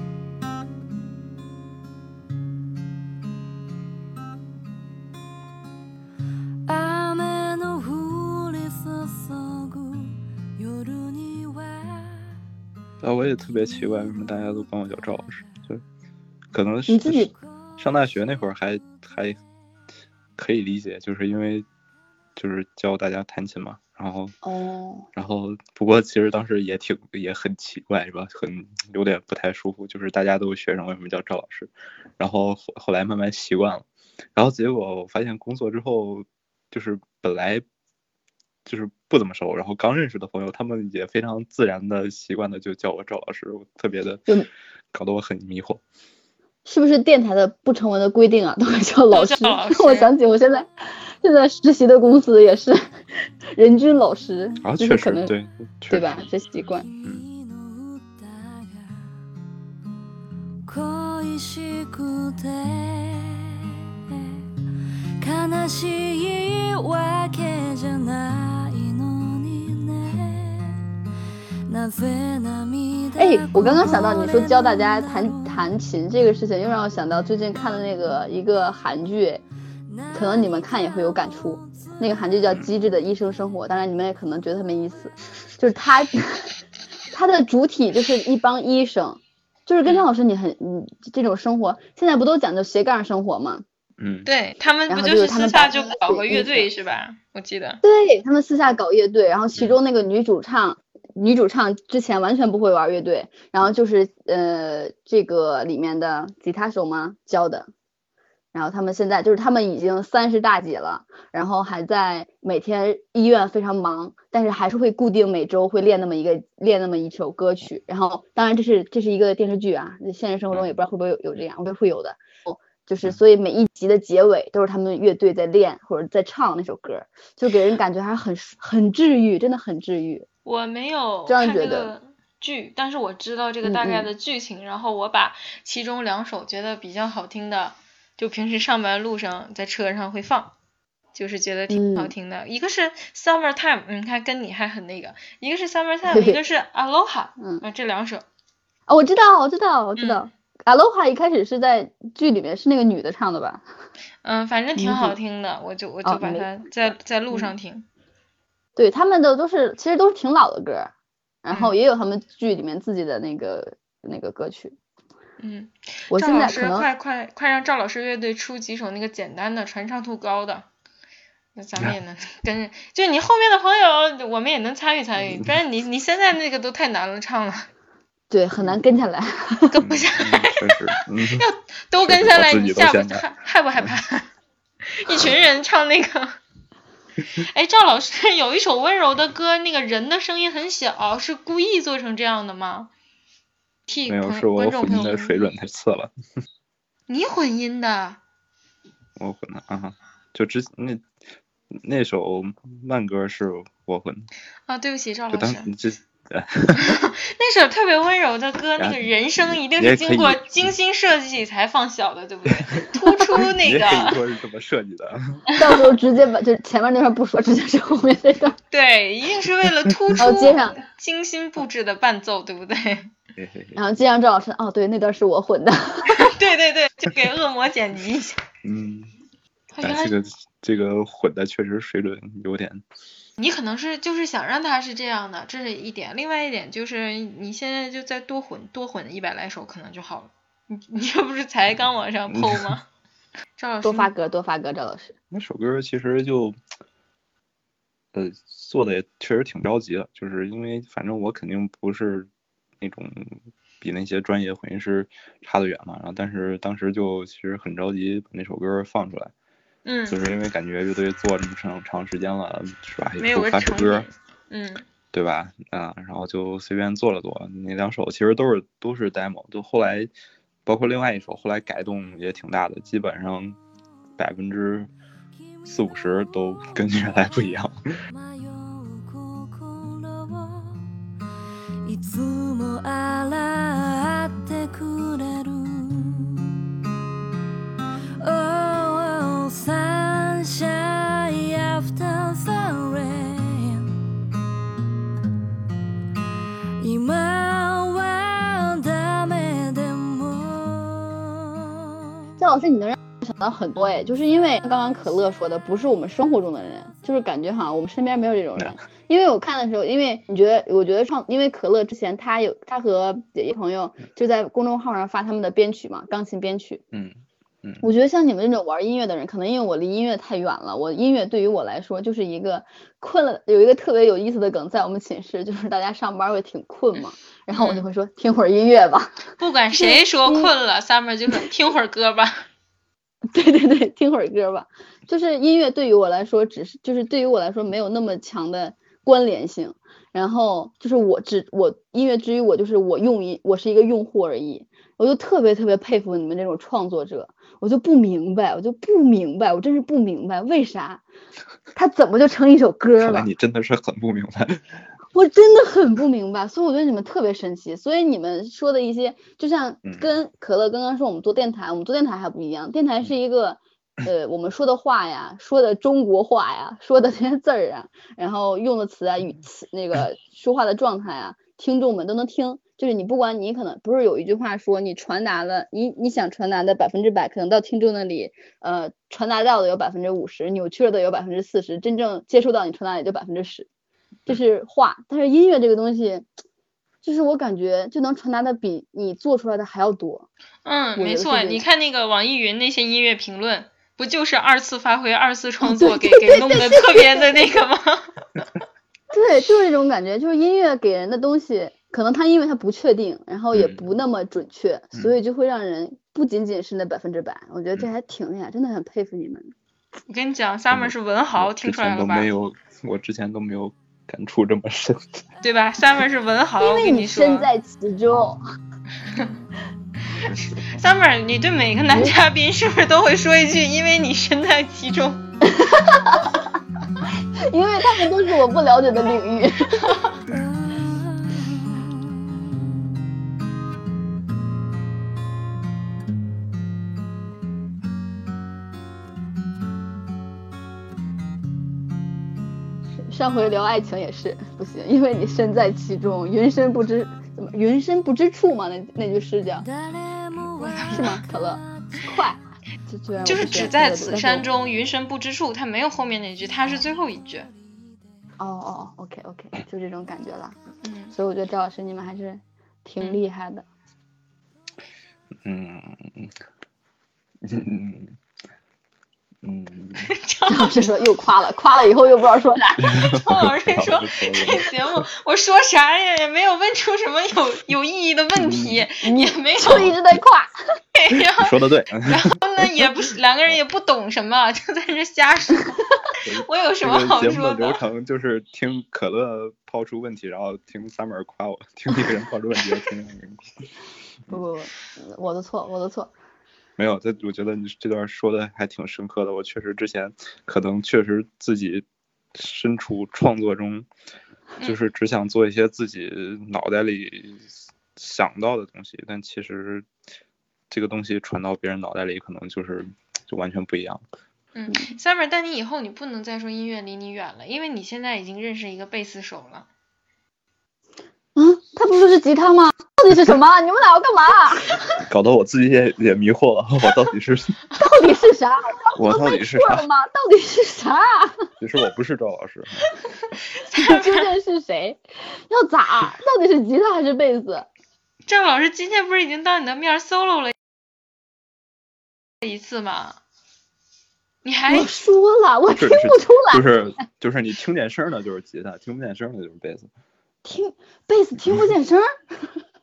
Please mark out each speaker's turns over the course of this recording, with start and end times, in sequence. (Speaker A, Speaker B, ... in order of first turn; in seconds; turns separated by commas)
Speaker A: 6.7-12.4, Speaker B: 13.0-15.8, Speaker B: 16.5-19.4, Speaker C: 16.9-17.3, Speaker B: 20.4-21.7, Speaker B: 22.4-24.4, Speaker C: 24.4-25.1, Speaker B: 25.1-37.6, Speaker B: 38.7-44.3, Speaker B: 44.9-45.8, Speaker C: 46.6-52.8, Speaker D: 49.1-50.1, Speaker C: 53.5-55.3, Speaker B: 54.6-56.2, Speaker C: 55.9-56.9, Speaker A: 56.7-59.1, Speaker A: 60.6-64.4, Speaker A: 65.2-70.8, Speaker A: 71.7-75.7, Speaker C: 73.2-79.4, Speaker A: 79.9-82.2, Speaker C: 80.1-86.5, Speaker C: 87.1-93.6, Speaker B: 94.0-94.3, Speaker D: 94.2-97.8, Speaker C: 94.9-96.7, Speaker C: 97.8-107.7, Speaker C: 108.5-130.3, Speaker D: 130.5-140.5, Speaker C: 131.3-131.9, Speaker C: 133.6-134.1, Speaker D: 141.2-148.2, Speaker C: 141.7-142.1, Speaker C: 146.1-146.4, Speaker C: 147.4-147.6, Speaker C: 148.9-153.6, Speaker D: 150.0-150.2, Speaker D: 154.2-157.8, Speaker C: 154.8-155.2, Speaker C: 156.1-156.4, Speaker C: 158.8-160.9, Speaker C: 161.4-164.8, Speaker D: 161.5-161.8, Speaker D: 165.4-170.7, Speaker C: 166.1-166.9, Speaker D: 171.6-177.7, Speaker C: 178.3-179.8, Speaker D: 179.7-184.3, Speaker B: 179.8-181.5, Speaker B: 182.0-183.3, Speaker D: 184.8-186.4, Speaker D: 187.4-192.9, Speaker D: 193.9-195.5, Speaker B: 194.1-196.1, Speaker D: 197.1-198.2, Speaker B: 199.2-201.1, Speaker B: 201.7-204.3, Speaker D: 204.7-205.7, Speaker B: 205.3-207.0, Speaker D: 206.8-214.2, Speaker B: 208.8-210.7, Speaker B: 212.5-215.4, Speaker C: 215.6-218.6, Speaker D: 218.7-223.1, Speaker C: 220.2-220.8, Speaker B: 223.4-223.8, Speaker C: 223.8-226.3, Speaker D: 226.1-228.4, Speaker B: 228.6-229.1, Speaker D: 229.7-230.2, Speaker B: 229.8-232.8, Speaker D: 233.4-242.9, Speaker B: 242.3-242.7, Speaker D: 243.6-244.1, Speaker C: 243.8-245.1, Speaker B: 245.3-246.6, Speaker B: 248.1-252.3, Speaker B: 252.8-259.3, Speaker D: 259.9-260.2, Speaker B: 260.1-264.1, Speaker D: 263.2-264.9, Speaker B: 265.1-270.1, Speaker B: 270.7-273.6, Speaker B: 274.2-274.9, Speaker A: 275.6-275.9, Speaker B: 275.6-277.8, Speaker A: 278.1-280.9, Speaker A: 281.8-286.6, Speaker A: 288.2-294.0, Speaker A: 296.8-301.8, Speaker C: 302.4-316.8, Speaker B: 316.9-317.9, Speaker C: 317.8-330.5, Speaker D: 327.5-327.9, Speaker D: 329.4-332.4, Speaker C: 333.3-351.0, Speaker C: 351.7-353.3, Speaker B: 353.0-354.8, Speaker C: 355.1-383.7, Speaker C: 384.3-386.3, Speaker C: 387.0-390.3, Speaker D: 390.6-398.4, Speaker C: 391.0-391.6, Speaker C: 395.6-397.4, Speaker C: 399.1-409.5, Speaker B: 403.5-403.8, Speaker D: 410.1-412.3, Speaker B: 410.7-415.2, Speaker D: 415.4-417.5, Speaker C: 416.6-418.4, Speaker D: 420.2-425.2, Speaker B: 420.2-420.8, Speaker C: 425.4-426.4, Speaker C: 427.4-429.9, Speaker A: 430.3-432.1, Speaker C: 442.9-449.7, Speaker A: 449.6-452.1, Speaker D: 450.6-451.0, Speaker C: 450.9-454.5, Speaker D: 453.2-457.5, Speaker C: 458.4-460.6, Speaker D: 460.8-461.1, Speaker C: 461.1-463.6, Speaker B: 465.4-466.4, Speaker B: 467.4-468.2, Speaker B: 469.4-470.1, Speaker D: 470.1-470.9, Speaker C: 470.5-472.8, Speaker B: 472.8-474.7, Speaker D: 472.9-480.0, Speaker B: 478.4-478.8, Speaker C: 479.0-480.5, Speaker B: 479.7-479.9, Speaker D: 480.9-487.8, Speaker B: 481.1-482.9, Speaker B: 486.2-493.5, Speaker C: 494.3-496.1, Speaker B: 496.8-503.9, Speaker B: 504.6-509.9, Speaker B: 510.7-514.0, Speaker D: 514.5-519.7, Speaker C: 521.4-525.0, Speaker B: 525.1-527.6, Speaker C: 527.8-531.5, Speaker B: 529.0-529.9, Speaker B: 531.6-532.9, Speaker D: 533.6-534.3, Speaker C: 533.7-537.7, Speaker D: 538.3-540.5, Speaker D: 542.4-543.2, Speaker D: 544.4-544.9, Speaker C: 544.7-546.8, Speaker B: 545.7-549.9, Speaker C: 550.4-552.6